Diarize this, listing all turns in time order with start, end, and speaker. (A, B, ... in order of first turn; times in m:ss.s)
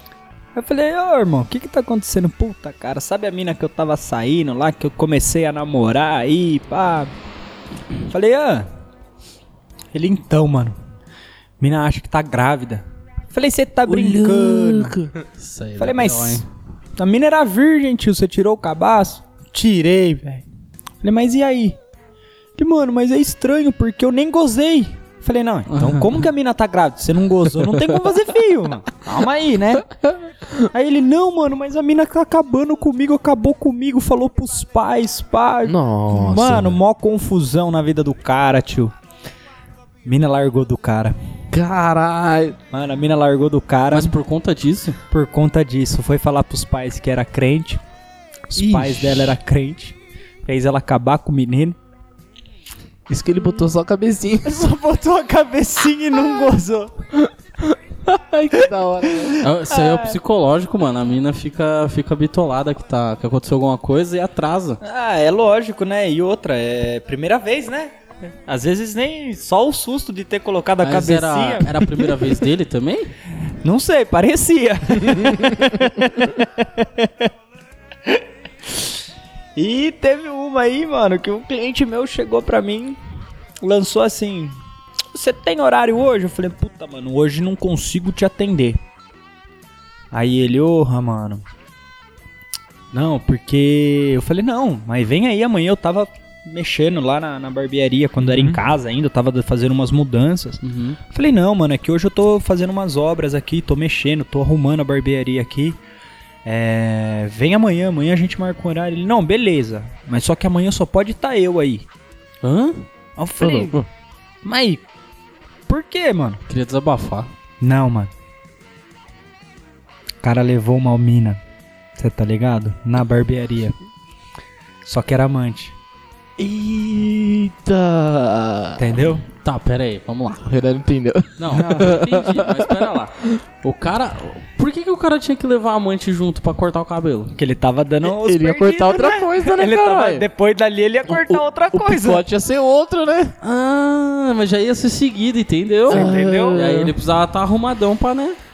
0:00.5-0:07.1 A
0:08.1-0:08.7 A
0:09.9-0:10.8 A
0:11.6-0:15.0 A
0:13.8-0:15.2 B
0:15.4-0:16.4 C
0:15.8-0:16.4 A
0:17.0-0:20.4 A
0:21.0-0:21.8 A
0:22.6-0:29.9 A
0:25.7-0:26.1 C
0:30.7-0:38.9 A
0:35.6-0:36.8 B
0:40.0-0:41.2 A
0:41.5-0:42.6 B
0:42.7-0:44.1 A
0:43.9-0:45.0 C
0:45.1-0:47.8 A
0:48.5-0:51.8 A
0:48.6-0:49.4 B
0:53.1-0:54.6 B
0:54.4-0:57.0 A
0:57.3-0:59.4 B
0:59.1-1:00.2 A
0:59.4-1:04.8 C
1:04.8-1:07.9 A
1:08.5-1:12.1 A
1:10.8-1:13.1 C
1:13.6-1:17.3 A
1:18.1-1:18.9 A
1:19.6-1:23.0 A
1:23.6-1:24.6 A
1:25.1-1:28.8 A
1:30.1-1:31.4 A
1:32.9-1:45.8 A
1:40.6-1:41.0 C
1:46.4-1:51.9 A
1:52.4-1:52.8 C
1:53.2-1:53.8 A
1:53.4-1:53.8 C
1:54.4-1:54.8 A
1:55.7-1:56.4 A
1:56.5-1:57.3 C
1:57.6-1:58.1 A
2:00.2-2:01.4 A
2:02.0-2:03.7 A
2:04.8-2:05.7 A
2:06.4-2:09.0 B
2:08.8-2:09.2 A
2:09.4-2:10.4 C
2:10.4-2:13.4 B
2:11.4-2:17.3 C
2:11.5-2:12.0 A
2:17.4-2:22.2 A
2:18.0-2:20.2 B
2:21.1-2:23.3 B
2:23.4-2:28.4 C
2:25.9-2:26.6 A
2:25.9-2:26.9 B